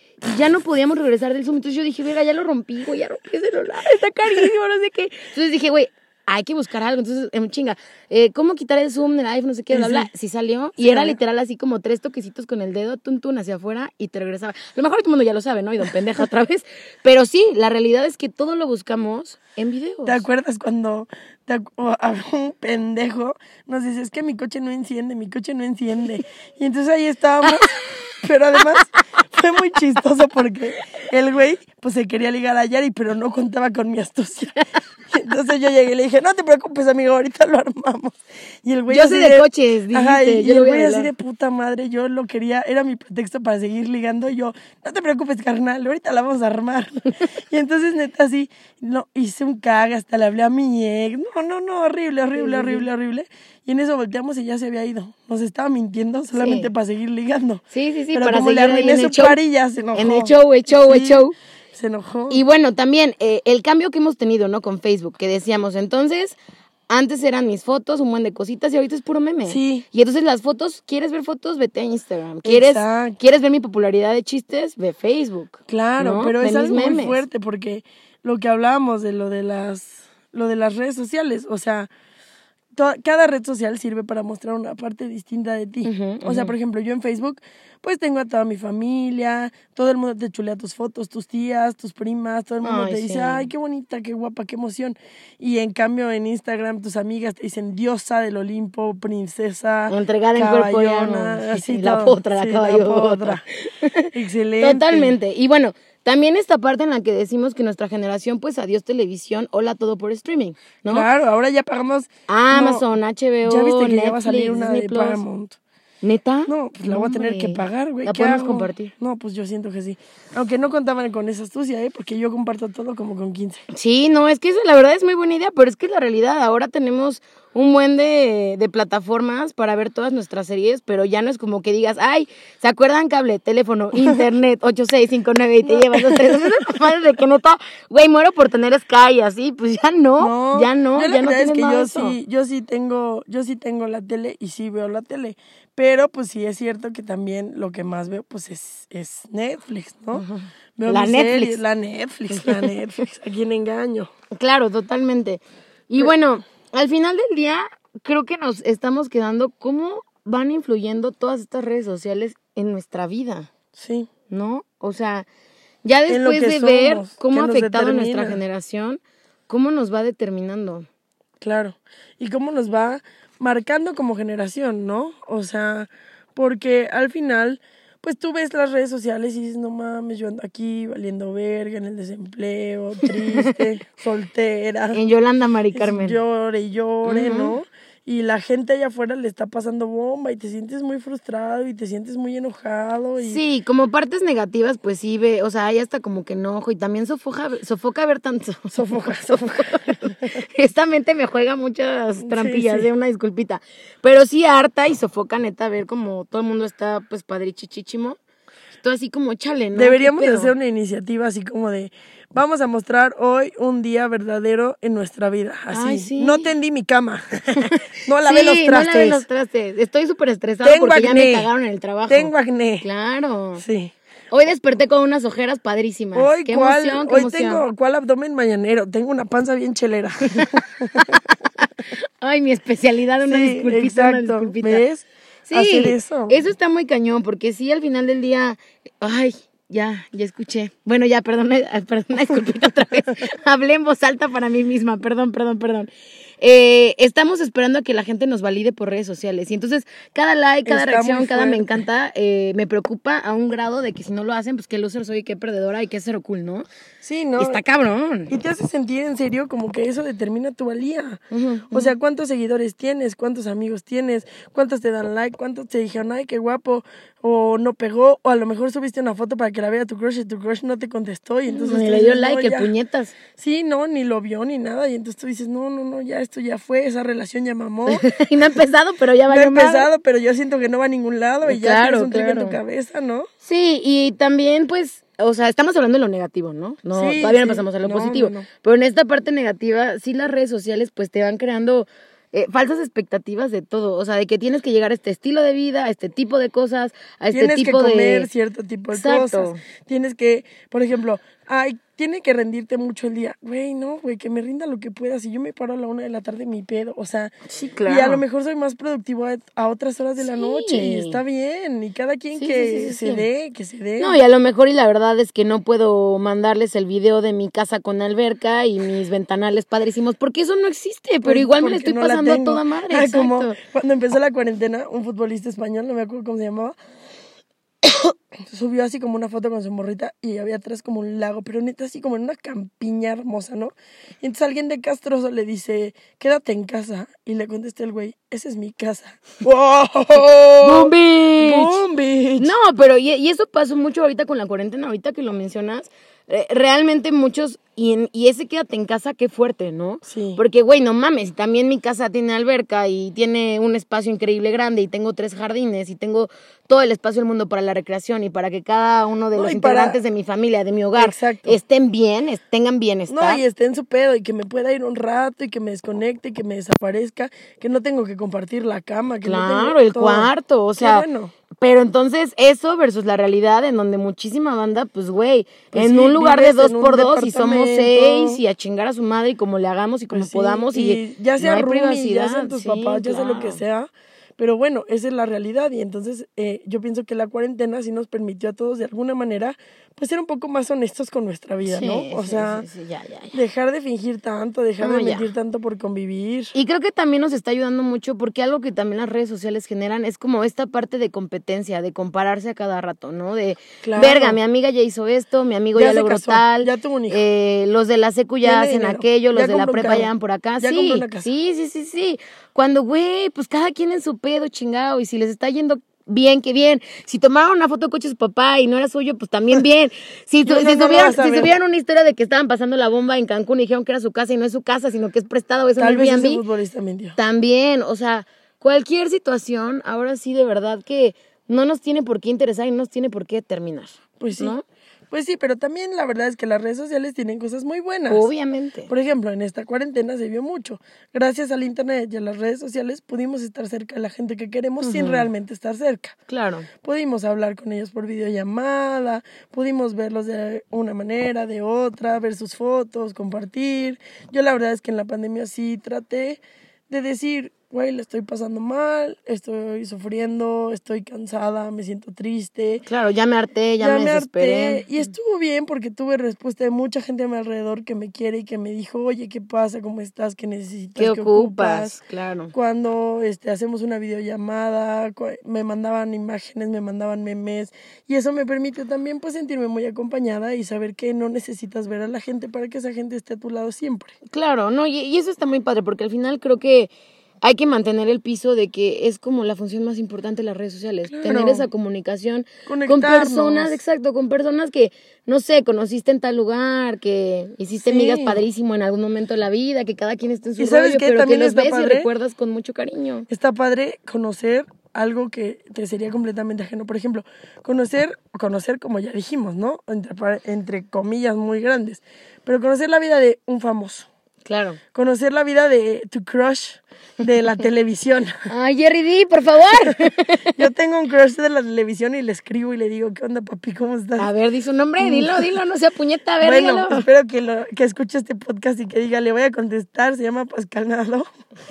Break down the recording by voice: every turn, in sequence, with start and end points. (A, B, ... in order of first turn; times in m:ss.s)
0:00.2-0:20.2 A
0:09.7-0:10.1 B
0:10.8-0:11.2 B
0:20.0-1:02.4 B
0:27.4-0:28.8 A
0:38.9-0:41.1 A
0:52.3-0:52.9 A
0:56.4-0:56.7 A
0:57.7-0:59.4 A
0:59.9-1:01.3 A
1:02.3-1:06.4 A
1:06.9-1:17.2 A
1:09.5-1:09.8 B
1:12.4-1:13.2 B
1:15.7-1:21.9 B
1:22.7-1:43.4 B
1:25.8-1:26.5 A
1:32.6-1:33.5 A
1:39.9-1:51.1 A
1:44.1-1:45.2 B
1:50.9-1:52.9 B
1:52.3-1:55.2 A
1:53.4-1:55.6 B
1:56.0-1:58.9 A
1:56.4-2:03.6 B
2:03.7-2:22.2 A
2:15.6-2:16.6 B
2:20.2-2:30.2 B
2:30.1-2:31.6 A
2:30.8-2:34.1 B
2:32.3-2:32.7 A
2:34.3-2:43.5 A
2:43.7-2:44.1 B
2:44.3-2:45.3 A
2:45.8-2:50.9 A
2:46.1-2:48.4 B
2:51.4-3:05.0 B
3:03.0-3:03.6 A
3:04.9-3:06.2 A
3:05.7-3:13.4 B
3:07.0-3:07.6 A
3:13.2-3:28.2 A
3:18.7-3:20.4 B
3:22.2-3:22.9 B
3:28.8-3:30.5 A
3:29.7-3:39.2 B
3:35.7-3:36.5 A
3:37.6-3:43.6 A
3:40.6-3:41.5 B
3:42.1-3:42.8 B
3:43.6-3:43.9 B
3:44.3-3:47.6 A
3:46.1-3:51.2 B
3:50.3-3:54.8 A
3:53.2-3:56.4 B
3:55.5-4:16.6 A
4:10.6-4:11.8 B
4:17.0-4:17.6 B
4:17.4-4:18.4 A
4:18.3-4:32.7 B
4:21.3-4:21.9 A
4:31.5-4:33.2 A
4:33.3-4:38.1 B
4:37.9-4:39.9 A
4:39.3-4:43.3 B
4:41.4-4:42.6 A
4:43.4-4:58.3 A
4:46.9-4:48.5 B
4:57.3-5:07.3 B
4:58.9-4:59.6 A
5:07.5-5:08.2 A
5:07.8-5:14.2 B
5:10.2-5:11.2 A
5:12.3-5:13.2 A
5:14.0-5:23.6 A
5:21.2-5:26.8 B
5:27.8-5:42.5 B
5:40.6-5:41.8 A
5:42.4-6:03.4 A
5:50.0-5:50.4 B
5:59.3-6:00.0 B
6:01.0-6:01.6 B
6:03.1-6:11.3 B
6:09.2-6:23.6 A
6:15.7-6:18.4 B
6:20.1-6:32.6 B
6:31.6-6:33.4 A
6:33.3-6:36.5 B
6:34.8-6:35.3 A
6:36.5-7:06.4 A
6:43.8-6:44.4 B
6:45.7-6:47.2 B
6:48.4-6:51.3 B
7:00.4-7:01.5 B
7:05.8-7:07.2 B
7:07.2-7:14.6 A
7:14.2-7:14.5 B
7:15.1-7:18.3 B
7:18.1-7:18.9 A
7:18.9-7:26.1 B
7:24.8-7:25.3 A
7:26.3-7:26.7 A
7:26.8-7:42.8 B
7:42.8-7:45.0 A
7:43.8-7:51.9 B
7:51.0-7:52.5 A
7:52.5-8:04.1 B
8:04.3-8:06.9 A
8:07.4-8:23.3 A
8:11.1-8:11.7 B
8:12.7-8:13.8 B
8:17.8-8:18.4 B
8:20.6-8:22.1 B
8:23.3-8:34.1 B
8:34.4-8:34.8 A
8:34.9-8:38.5 B
8:38.5-8:40.6 A
8:39.8-8:44.3 B
8:44.2-8:47.0 A
8:45.0-8:45.5 B
8:46.4-8:51.2 B